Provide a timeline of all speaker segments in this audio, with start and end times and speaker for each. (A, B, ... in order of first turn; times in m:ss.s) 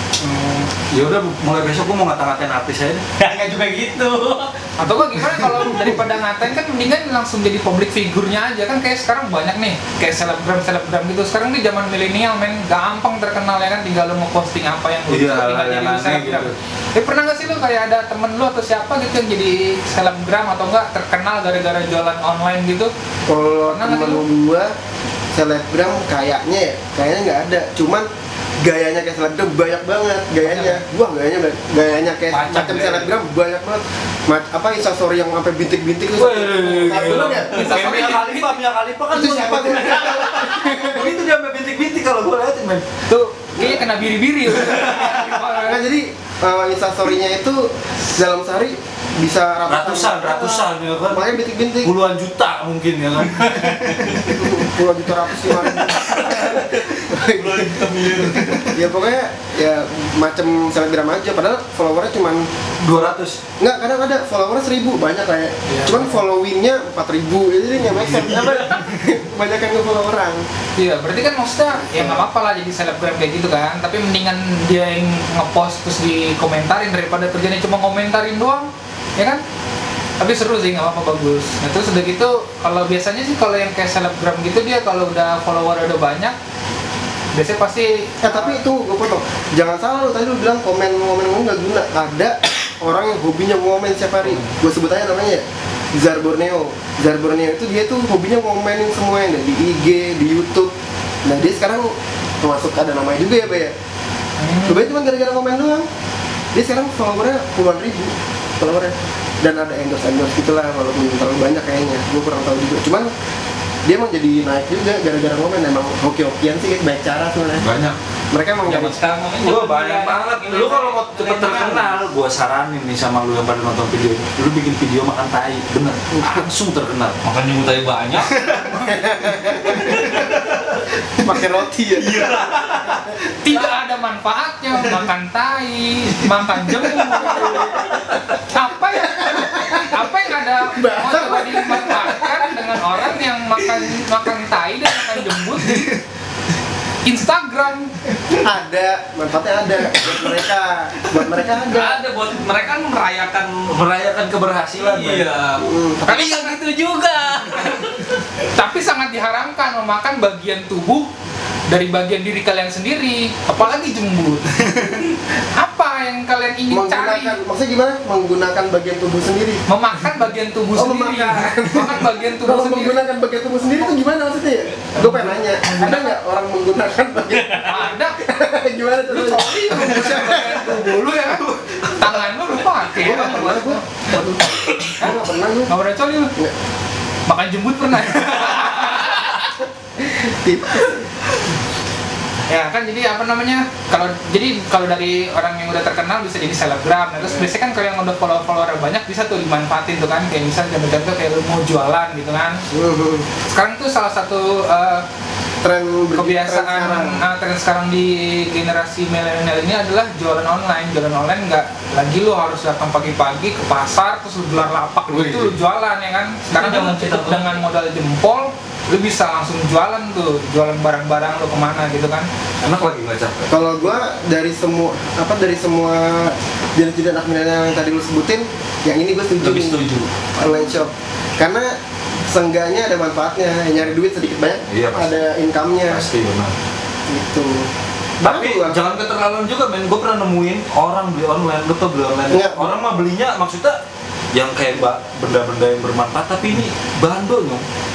0:00.2-0:00.7 A
0:00.9-0:03.0 B
0:03.2-0:04.5 C
0:04.8-0:22.9 A
0:05.5-0:06.0 B
0:15.1-0:16.6 B
0:23.3-0:24.7 D
0:23.7-0:24.2 A
0:25.3-0:28.1 D
0:28.6-0:37.6 D
0:30.4-0:30.8 A
0:32.3-0:33.1 C
0:32.6-0:33.0 B
0:36.2-0:42.9 B
0:37.4-0:38.6 A
0:39.1-0:41.2 D
0:43.1-0:45.8 A
0:43.6-0:43.9 D
0:44.5-0:45.4 B
0:45.6-0:51.9 D
0:49.7-0:54.5 B
0:53.3-0:54.4 C
0:54.3-1:02.5 D
0:55.7-0:58.8 C
0:58.4-0:58.7 B
1:02.8-1:03.4 B
1:03.6-1:10.4 D
1:05.7-1:06.2 A
1:07.9-1:09.0 B
1:10.8-1:19.4 A
1:11.7-1:12.3 D
1:20.2-1:26.4 A
1:27.3-1:28.6 A
1:28.2-1:40.7 D
1:34.2-1:34.5 A
1:41.2-1:43.7 D
1:44.4-1:44.9 A
1:44.7-1:45.9 D
1:46.5-1:53.1 D
1:53.9-1:57.7 D
1:57.6-1:58.0 B
1:58.3-1:59.0 D
1:58.6-2:01.9 C
1:59.4-2:07.2 B
2:06.1-2:06.4 D
2:07.2-2:08.5 C
2:08.2-2:11.4 B
2:08.8-2:10.2 D
2:09.8-2:10.3 C
2:11.2-2:12.3 D
2:12.0-2:13.2 B
2:13.4-2:17.8 A
2:16.7-2:18.0 B
2:17.2-2:17.9 D
2:18.4-2:25.9 A
2:19.0-2:22.6 D
2:25.5-2:26.0 B
2:27.0-2:27.9 A
2:28.4-2:32.0 D
2:31.6-2:33.8 C
2:33.7-2:35.3 B
2:34.7-2:38.2 C
2:35.6-2:36.1 D
2:36.1-2:36.6 A
2:38.5-2:41.1 A
2:41.7-2:45.0 A
2:44.7-2:45.0 B
2:45.5-2:47.4 A
2:46.7-2:49.6 D
2:49.7-2:53.0 A
2:50.7-3:01.0 D
2:55.0-2:56.2 A
2:57.6-2:58.2 A
2:59.1-3:03.8 A
3:01.2-3:02.1 B
3:03.0-3:05.7 D
3:05.0-3:06.3 A
3:07.3-3:09.5 A
3:10.0-3:11.1 D
3:12.5-3:22.6 A
3:17.2-3:17.5 D
3:22.7-3:23.3 D
3:23.5-3:25.0 A
3:25.6-3:27.2 D
3:26.2-3:42.3 A
3:35.1-3:35.6 B
3:36.5-3:37.5 C
3:42.6-3:43.9 B
3:43.5-3:56.1 D
3:49.4-3:50.8 B
3:54.7-3:55.3 B
3:55.8-3:56.5 B
3:57.1-3:57.7 D
3:58.2-3:59.0 D
3:58.2-4:03.8 B
4:02.3-4:03.0 D
4:04.3-4:07.6 B